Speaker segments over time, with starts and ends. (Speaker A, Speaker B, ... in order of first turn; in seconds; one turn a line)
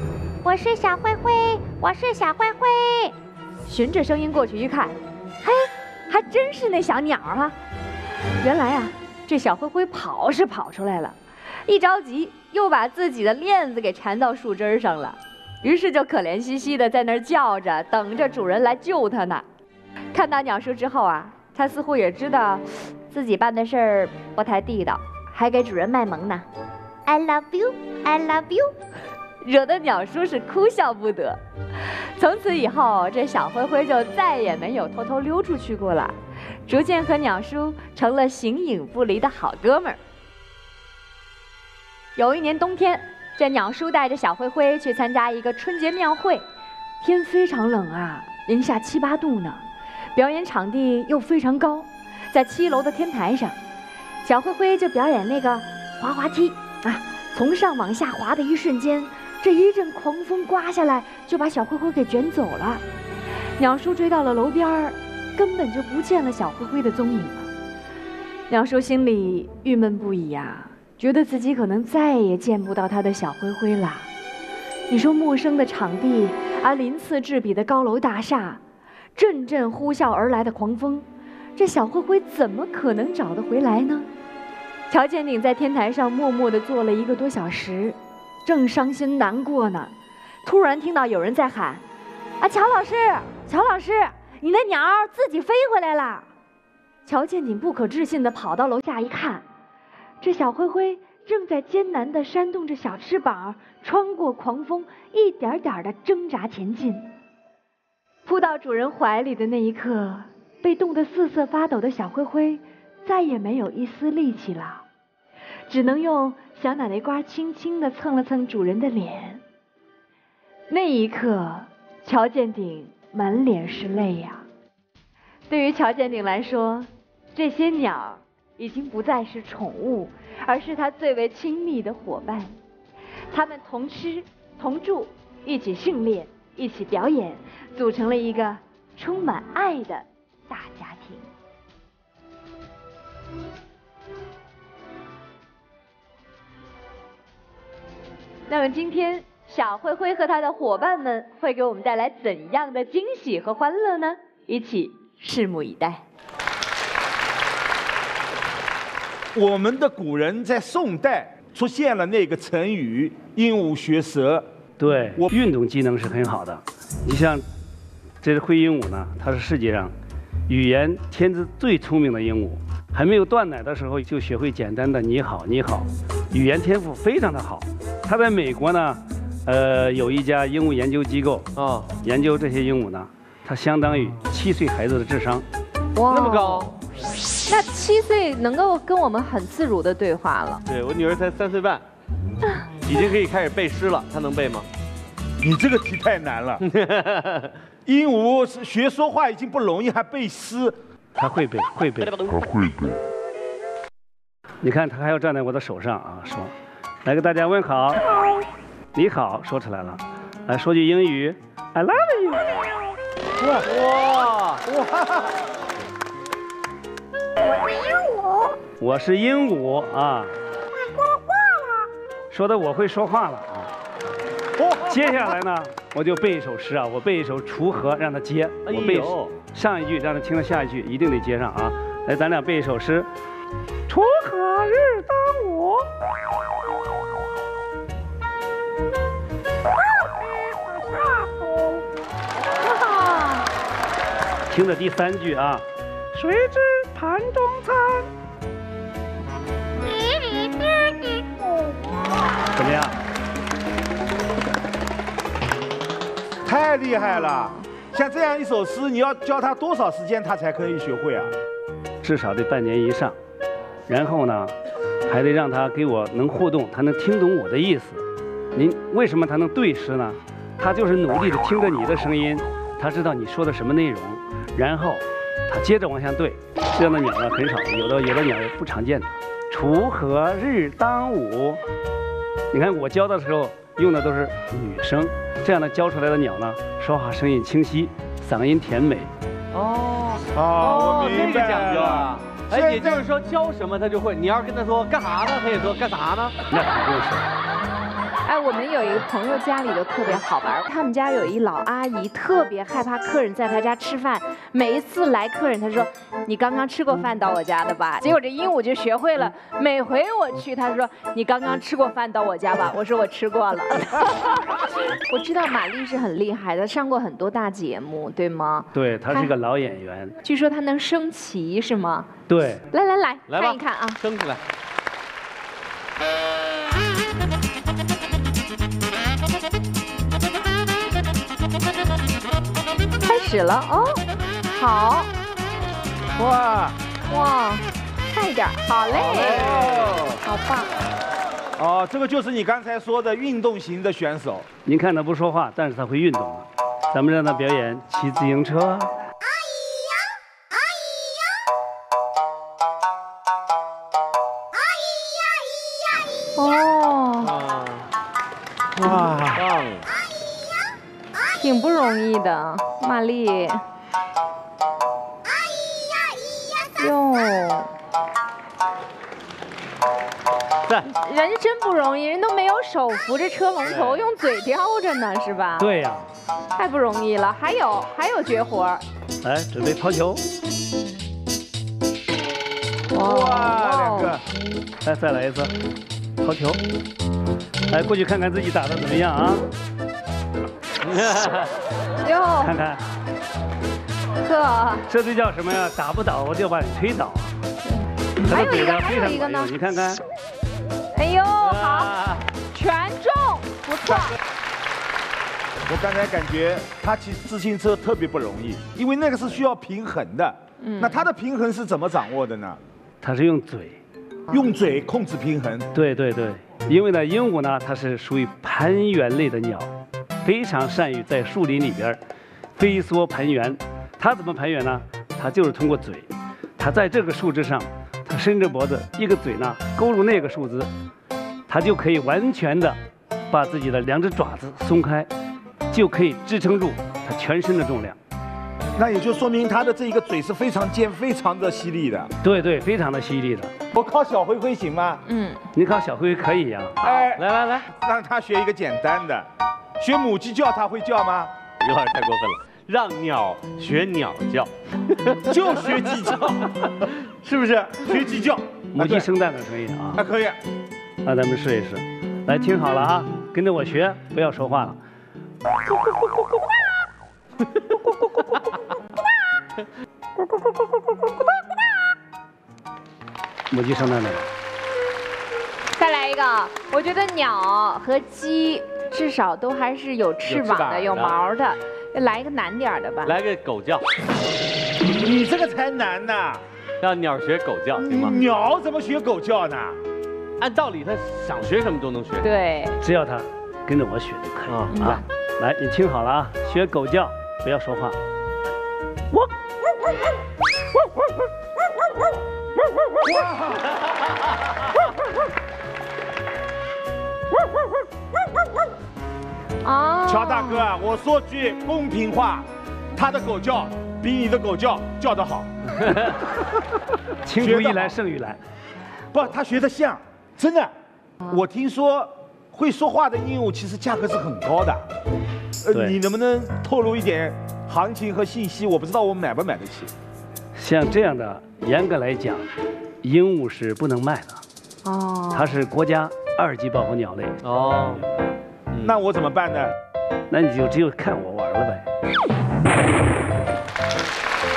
Speaker A: 0.4-3.1
Speaker B: 3.7-7.6
Speaker B: 8.4-19.4
Speaker B: 20.1-26.5
Speaker B: 27.1-28.7
Speaker B: 29.4-31.4
Speaker B: 32.2-36.1
Speaker B: 36.7-40.0
Speaker B: 42.2-46.4
Speaker B: 47.0-49.6
Speaker B: 50.1-53.6
Speaker B: 54.2-62.8
Speaker B: 63.6-67.5
Speaker B: 68.5-74.1
Speaker B: 74.9-78.6
Speaker B: 79.2-81.0
Speaker B: 81.6-84.1
Speaker B: 84.9-89.9
Speaker B: 90.4-91.8
Speaker B: 92.4-96.3
Speaker B: 97.1-99.4
Speaker B: 100.2-107.1
Speaker B: 108.3-114.8
Speaker B: 115.7-119.4
Speaker B: 120.7-124.4
Speaker B: 125.5-132.6
Speaker B: 133.3-141.3
Speaker B: 148.5-156.0
Speaker C: 159.3-164.5
Speaker D: 164.8-167.4
Speaker D: 168.2-169.9
Speaker D: 170.5-181.5
Speaker E: 181.6-181.9
Speaker D: 182.0-185.4
Speaker F: 185.9-186.7
Speaker E: 186.1-186.7
Speaker F: 187.5-190.6
Speaker E: 190.7-191.8
Speaker E: 192.8-194.7
Speaker C: 195.4-196.6
Speaker E: 196.7-197.5
Speaker C: 197.9-200.8
Speaker D: 201.2-202.3
Speaker D: 204.6-206.5
Speaker D: 207.0-208.1
Speaker D: 208.9-212.6
Speaker E: 213.4-214.6
Speaker C: 214.7-215.3
Speaker D: 218.8-220.3
Speaker D: 222.3-223.7
Speaker D: 224.8-233.1
Speaker E: 228.7-229.3
Speaker D: 233.9-235.8
Speaker F: 242.8-243.4
Speaker D: 244.5-248.1
Speaker D: 252.5-253.0
Speaker C: 256.4-261.3
Speaker D: 262.0-263.2
Speaker D: 263.9-264.5
Speaker D: 265.1-268.0
Speaker D: 268.6-281.6
Speaker D: 282.5-289.1
Speaker E: 289.5-296.3
Speaker C: 290.3-293.1
Speaker D: 296.5-297.3
Speaker F: 298.2-319.3
Speaker D: 318.7-320.2
Speaker F: 320.2-322.1
Speaker D: 322.3-322.7
Speaker F: 322.7-324.0
Speaker E: 323.3-324.4
Speaker F: 333.0-335.1
Speaker C: 336.2-336.8
Speaker F: 337.1-340.8
Speaker C: 338.9-340.2
Speaker C: 341.6-344.5
Speaker D: 344.6-348.9
Speaker F: 356.4-357.3
Speaker E: 357.2-357.9
Speaker E: 358.8-359.9
Speaker F: 361.3-363.6
Speaker F: 366.8-367.7
Speaker F: 370.8-375.7
Speaker E: 373.7-374.1
Speaker D: 375.6-376.1
Speaker F: 376.6-378.8
Speaker D: 379.2-380.2
Speaker F: 382.9-384.2
Speaker C: 383.0-384.2
Speaker D: 384.8-385.5
Speaker D: 386.2-386.6
Speaker D: 387.7-389.5
Speaker E: 390.8-391.5
Speaker F: 392.0-392.6
Speaker D: 392.4-392.8
Speaker F: 394.2-394.9
Speaker D: 394.9-397.4
Speaker F: 397.6-399.5
Speaker D: 398.2-400.0
Speaker F: 400.9-401.9
Speaker E: 401.4-402.2
Speaker F: 402.5-404.2
Speaker C: 405.7-412.6
Speaker F: 410.6-411.0
Speaker D: 413.0-413.8
Speaker C: 414.3-415.7
Speaker D: 415.7-419.7
Speaker D: 420.2-422.0
Speaker D: 422.6-430.7
Speaker D: 431.5-435.1
Speaker D: 435.7-438.0
Speaker C: 438.8-442.1
Speaker D: 442.2-443.5
Speaker C: 443.7-445.0
Speaker F: 445.1-445.4
Speaker D: 445.5-446.8
Speaker C: 446.8-449.3
Speaker E: 447.2-447.7
Speaker C: 449.8-451.3
Speaker E: 451.6-455.4
Speaker C: 455.3-456.7
Speaker E: 456.6-457.9
Speaker C: 457.8-459.1
Speaker D: 458.7-460.0
Speaker C: 459.9-460.4
Speaker D: 461.0-464.8
Speaker E: 467.5-467.9
Speaker D: 473.5-474.3
Speaker F: 475.8-483.1
Speaker E: 480.3-481.2
Speaker E: 483.0-483.9
Speaker C: 484.9-486.4
Speaker E: 486.8-488.2
Speaker C: 487.8-489.8
Speaker E: 490.4-492.3
Speaker F: 492.2-492.8
Speaker D: 492.8-498.0
Speaker E: 494.5-495.0
Speaker F: 494.7-495.0
Speaker F: 509.6-510.7
Speaker C: 510.0-515.5
Speaker D: 517.2-518.4
Speaker C: 517.4-517.9
Speaker C: 519.1-520.7
Speaker C: 521.2-524.9
Speaker C: 525.6-529.9
Speaker D: 525.7-526.0
Speaker D: 530.5-532.5
Speaker D: 533.0-534.4
Speaker F: 534.8-535.5
Speaker D: 535.3-537.4
Speaker E: 537.4-538.0
Speaker E: 538.7-539.0
Speaker C: 538.8-539.7
Speaker D: 540.3-541.9